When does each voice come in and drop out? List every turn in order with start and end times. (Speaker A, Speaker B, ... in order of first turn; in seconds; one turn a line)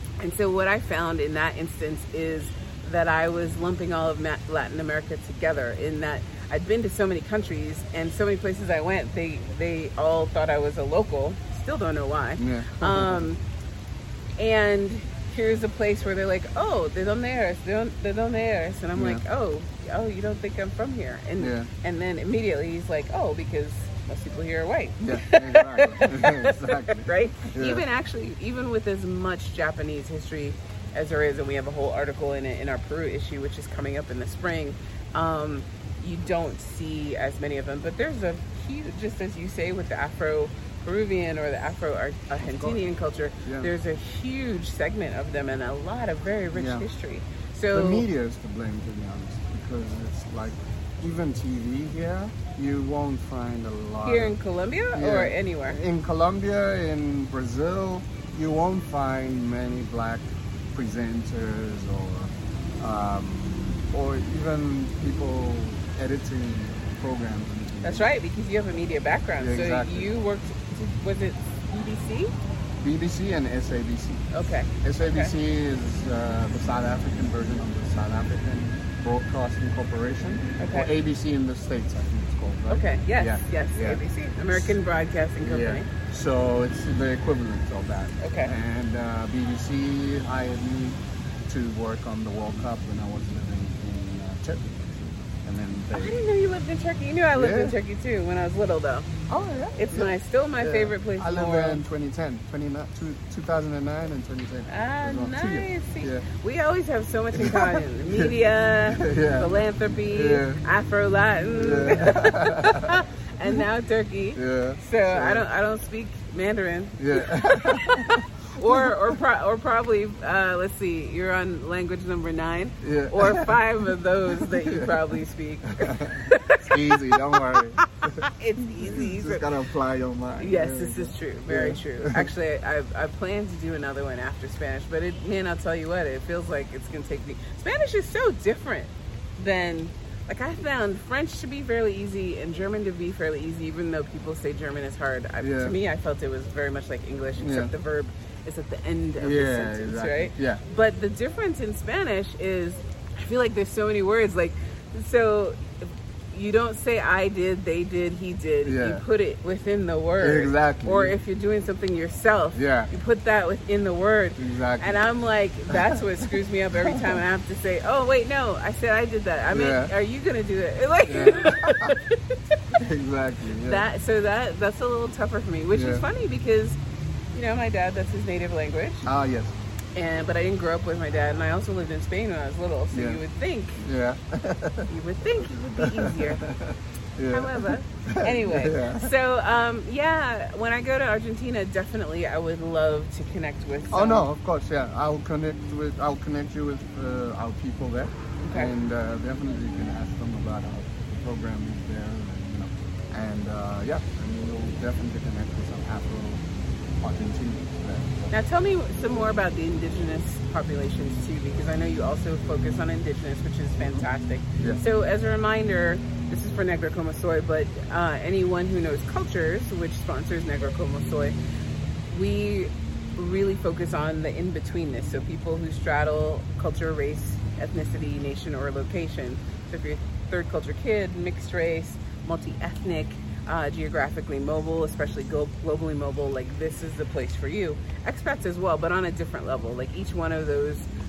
Speaker A: 0.2-13.4
Speaker B: 12.4-13.2
Speaker A: 14.4-48.0
Speaker B: 18.9-19.2
Speaker B: 21.4-21.7
Speaker B: 25.0-27.8
Speaker B: 42.4-42.8
Speaker B: 43.4-43.7
Speaker B: 46.5-46.9
Speaker B: 47.7-54.4
Speaker A: 54.0-55.8
Speaker B: 54.9-68.1
Speaker A: 67.8-72.3
Speaker B: 69.4-70.1
Speaker B: 72.8-84.7
Speaker A: 74.3-75.3
Speaker A: 80.6-80.9
Speaker A: 82.7-85.9
Speaker B: 85.4-96.2
Speaker A: 88.2-88.5
Speaker A: 95.9-99.1
Speaker B: 97.3-97.8
Speaker B: 99.3-106.2
Speaker A: 99.7-101.8
Speaker A: 104.7-129.4
Speaker B: 107.3-108.3
Speaker B: 108.9-109.5
Speaker B: 110.1-110.6
Speaker B: 111.5-113.6
Speaker B: 114.3-115.4
Speaker B: 117.0-119.2
Speaker B: 122.8-123.6
Speaker B: 124.3-125.0
Speaker B: 125.8-132.3
Speaker A: 130.4-172.3
Speaker B: 145.4-145.7
Speaker B: 147.4-147.7
Speaker B: 149.2-150.6
Speaker B: 158.6-159.0
Speaker B: 160.2-161.2
Speaker B: 162.5-162.9
Speaker B: 164.4-165.0
Speaker B: 165.7-166.0
Speaker B: 166.8-167.2
Speaker B: 169.5-169.9
Speaker B: 171.1-172.0
Speaker B: 172.7-173.8
Speaker A: 173.6-176.8
Speaker B: 175.7-176.0
Speaker A: 177.3-179.1
Speaker B: 179.0-179.5
Speaker A: 179.9-183.8
Speaker B: 182.9-183.2
Speaker B: 183.8-189.1
Speaker A: 184.9-186.4
Speaker A: 187.3-194.2
Speaker B: 193.9-206.4
Speaker A: 198.4-198.7
Speaker B: 207.0-208.3
Speaker A: 208.3-221.3
Speaker A: 222.1-240.9